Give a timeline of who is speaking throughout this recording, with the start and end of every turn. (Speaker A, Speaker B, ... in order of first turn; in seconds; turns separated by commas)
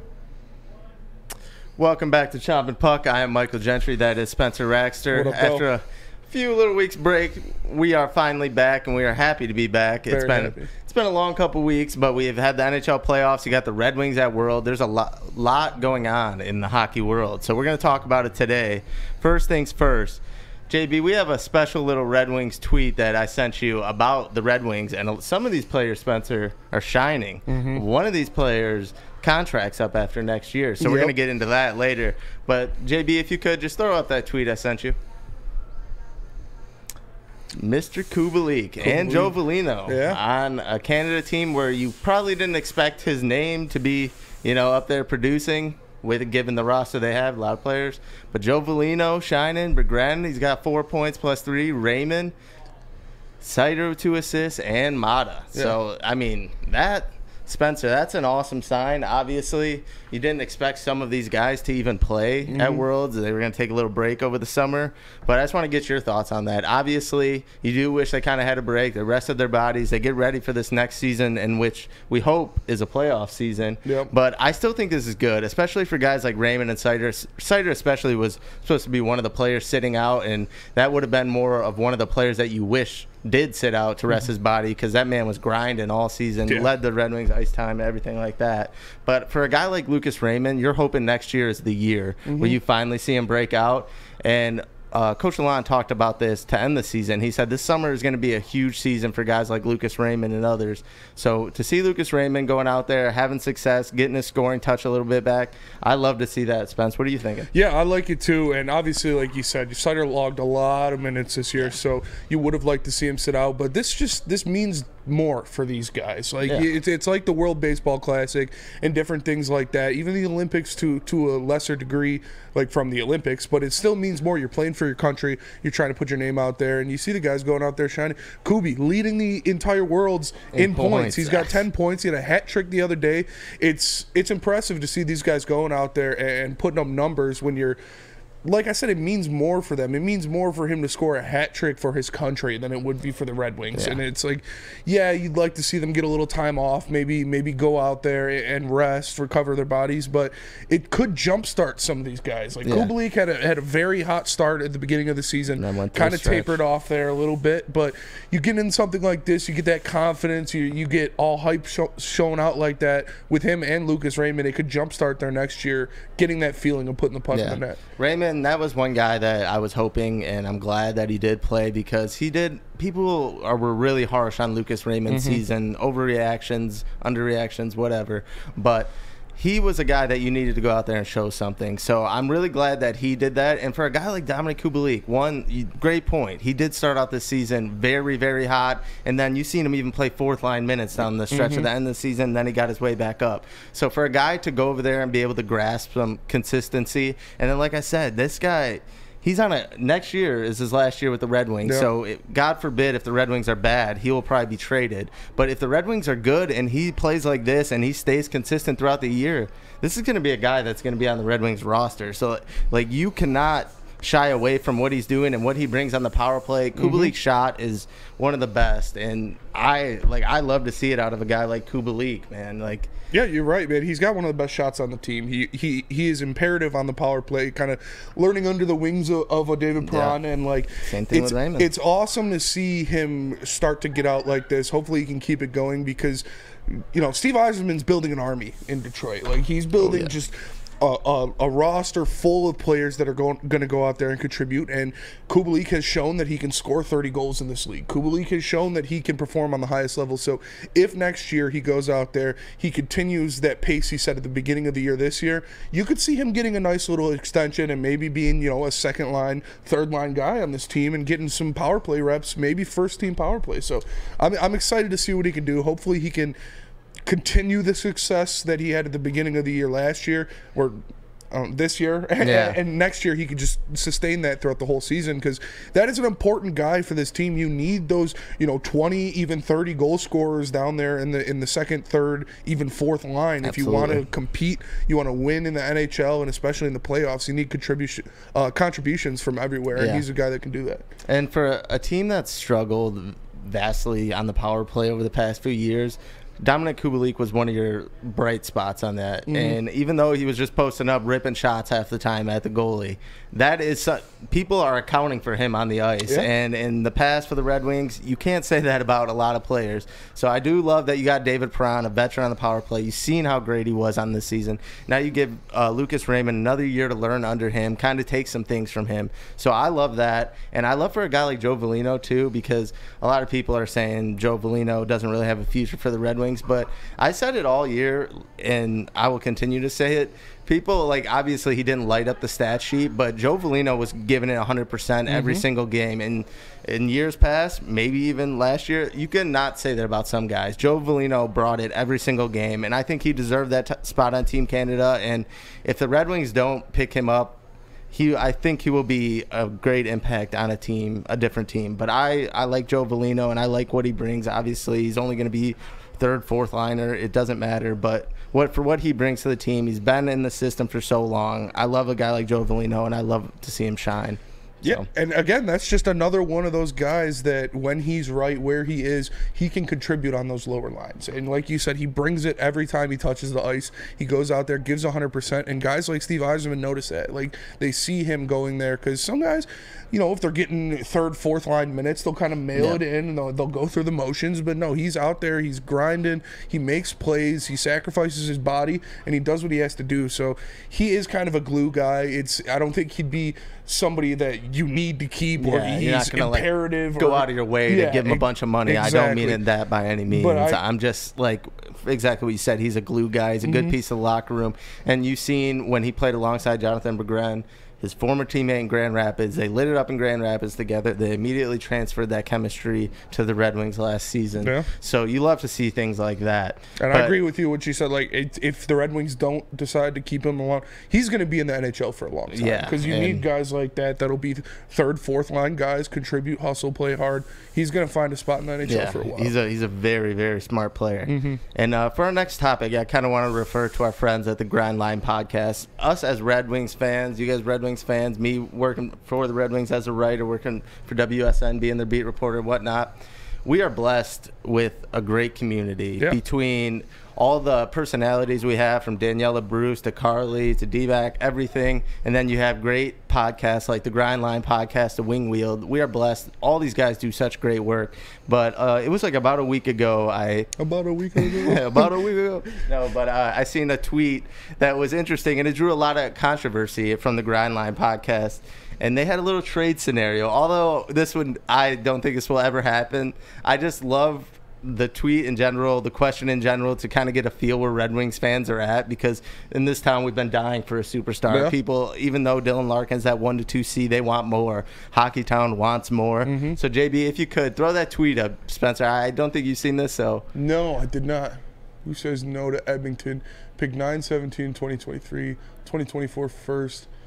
Speaker A: 1.8-35.0, Speaker B: 5.1-5.7, Speaker B: 10.1-10.7, Speaker B: 27.5-27.8, Speaker B: 30.8-31.1, Speaker A: 37.5-52.3, Speaker B: 38.8-40.2, Speaker A: 53.4-107.5, Speaker B: 62.5-62.8, Speaker B: 73.8-74.1, Speaker B: 92.2-92.6, Speaker B: 107.5-137.8, Speaker A: 130.5-131.6, Speaker B: 138.4-167.8, Speaker A: 143.7-144.0, Speaker A: 152.6-152.9, Speaker A: 155.6-156.6, Speaker A: 167.3-222.9, Speaker B: 175.1-175.4, Speaker B: 191.3-191.7, Speaker B: 216.8-217.1, Speaker B: 223.1-266.4, Speaker A: 229.8-230.2, Speaker A: 230.8-231.7, Speaker A: 239.8-240.1, Speaker B: 267.0-290.9, Speaker A: 272.2-272.6, Speaker A: 283.4-284.0, Speaker A: 289.7-290.0, Speaker A: 291.1-347.4, Speaker B: 299.3-299.6, Speaker B: 335.1-335.4, Speaker A: 347.9-364.9, Speaker B: 364.6-399.4, Speaker A: 382.5-382.8, Speaker A: 395.4-417.1, Speaker B: 400.1-400.6, Speaker B: 403.4-403.7, Speaker B: 414.4-414.7, Speaker B: 416.8-429.3, Speaker A: 422.3-423.2, Speaker A: 428.6-460.5, Speaker B: 431.1-431.4, Speaker B: 460.6-461.9, Speaker A: 461.2-490.2, Speaker B: 481.3-481.5, Speaker B: 486.2-486.6, Speaker B: 490.3-496.9